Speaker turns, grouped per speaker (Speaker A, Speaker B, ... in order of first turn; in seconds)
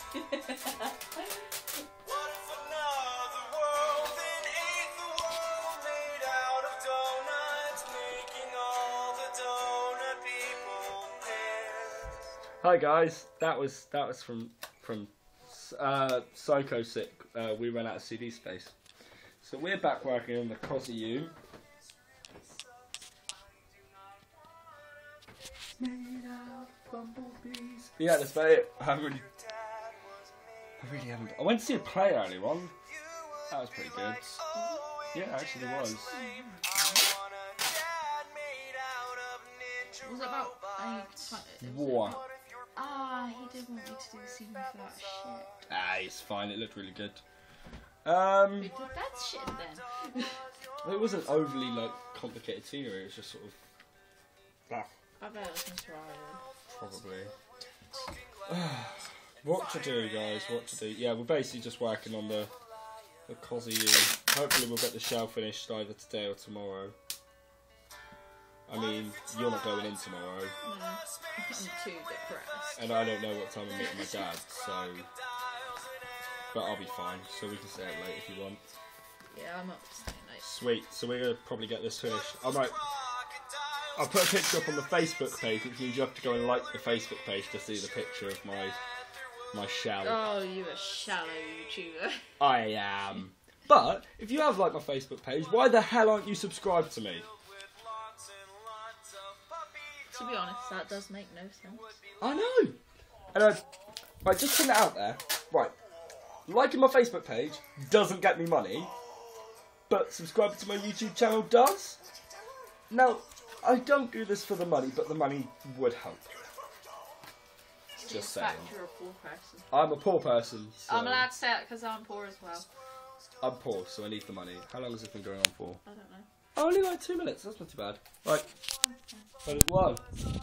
Speaker A: 2.0-12.0
Speaker B: 12.6-18.7, 19.4-21.3, 25.8-29.3, 30.8-32.7, 33.5-34.4, 35.1-36.1, 41.6-42.2, 45.7-47.2, 48.0-48.7, 50.8-53.6, 56.7-57.3, 58.5-62.5, 63.3-66.9, 68.7-70.5, 72.8-75.1, 76.5-78.6, 80.4-82.8, 84.0-88.8, 89.5-90.2, 92.4-97.3, 102.2-102.8, 103.3-103.6, 104.2-105.7, 106.5-108.9, 109.9-112.0, 112.9-116.4, 118.0-118.7, 119.7-121.3, 123.4-125.8, 126.6-128.5, 129.4-130.0
Speaker C: 34.5-35.0, 35.9-36.9, 40.0-42.2, 42.8-45.5, 48.5-50.4, 55.2-56.4, 70.6-72.8, 73.7-74.1, 79.3-80.5, 90.0-92.2, 100.1-102.0, 118.0-119.8, 120.9-122.7, 125.8-126.3, 128.8-129.5